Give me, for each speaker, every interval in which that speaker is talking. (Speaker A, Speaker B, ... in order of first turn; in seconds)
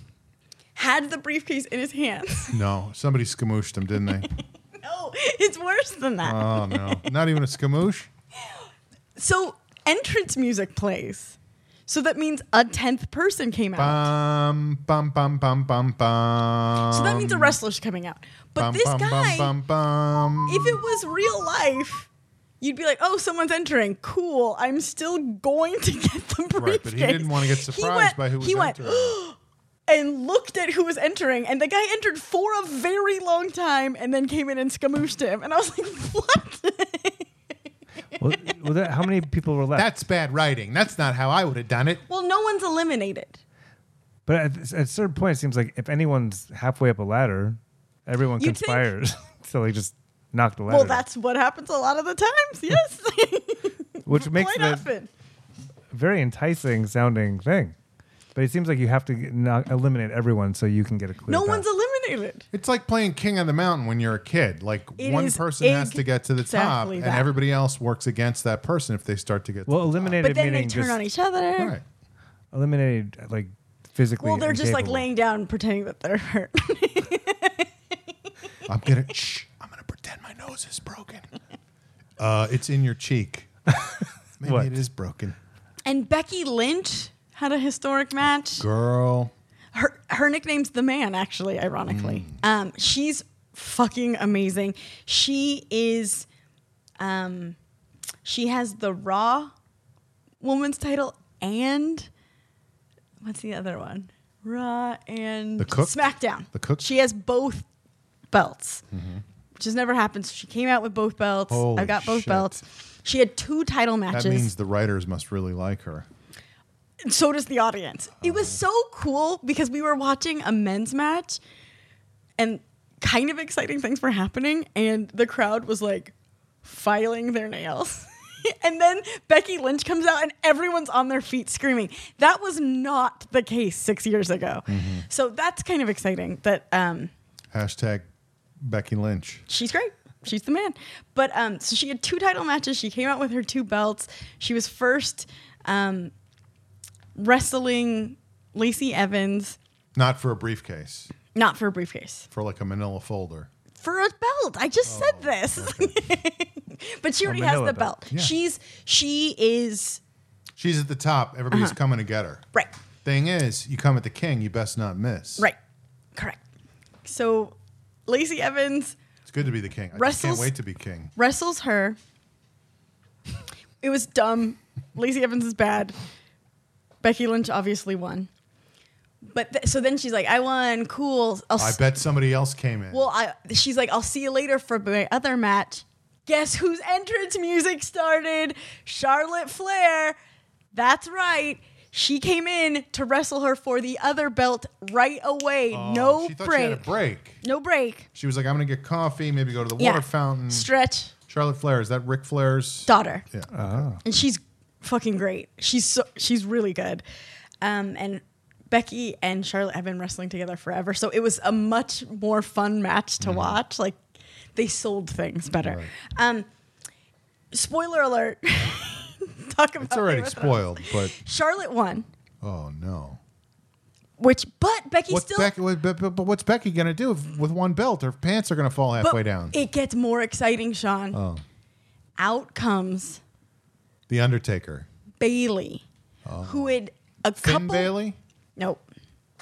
Speaker A: 0.8-2.6, 4.8-7.1, 9.2-11.3, 11.9-14.1, 16.9-19.5, 20.4-22.1, 22.6-37.3, 42.1-43.4, 48.4-48.9, 50.7-55.1, 61.3-62.5, 65.0-67.3, 70.2-71.8, 74.2-77.7, 85.8-88.7, 89.7-96.3, 97.0-97.5, 98.2-99.5, 100.4-102.1, 103.2-107.7, 108.3-108.8, 109.6-114.5, 117.0-121.4, 122.4-126.1, 126.6-137.1, 139.5-146.1, 147.2-149.6, 151.3-152.3, 153.8-160.0, 161.5-161.8, 166.1-166.4, 167.0-167.5, 168.1-168.9, 169.9-170.5, 171.2-172.0, 173.8-176.0, 177.0-178.3, 179.2-181.8, 182.9-190.2, 190.7-196.9, 197.4-198.1, 199.8-201.1, 202.9-203.2, 204.0-207.0, 207.6-214.0, 214.5-216.4, 217.5-222.1, 224.2-225.5, 229.0-231.2, 232.2-233.2, 235.2-235.8, 236.4-237.9, 238.6-238.8
Speaker B: 2.5-4.3, 6.2-8.1, 13.8-17.6, 18.6-20.8, 26.6-29.2, 39.7-42.0, 62.5-70.2, 71.6-71.8, 78.7-81.3, 82.2-83.8, 84.4-85.3, 88.6-89.3, 91.9-92.4, 105.6-106.0, 106.5-106.9, 108.9-109.2, 111.5-112.6, 114.1-116.0, 118.2-118.6, 134.7-135.1, 137.5-138.1, 138.6-139.4, 149.9-151.1, 152.3-153.5, 154.8-156.0, 160.6-162.4, 163.0-165.5, 169.2-171.1, 181.6-183.1, 195.7-197.4, 198.1-200.7, 201.3-203.9, 213.2-213.6, 215.6-215.9, 219.8-221.1, 222.4-223.2, 225.1-229.6, 231.1-231.4, 234.1-234.9, 236.2-236.8, 237.4-238.2
Speaker C: 38.2-39.9, 44.2-51.0, 54.0-54.9, 55.9-57.7, 58.3-61.6, 69.7-71.0, 72.5-75.0, 84.4-84.8, 157.2-157.9, 203.5-204.0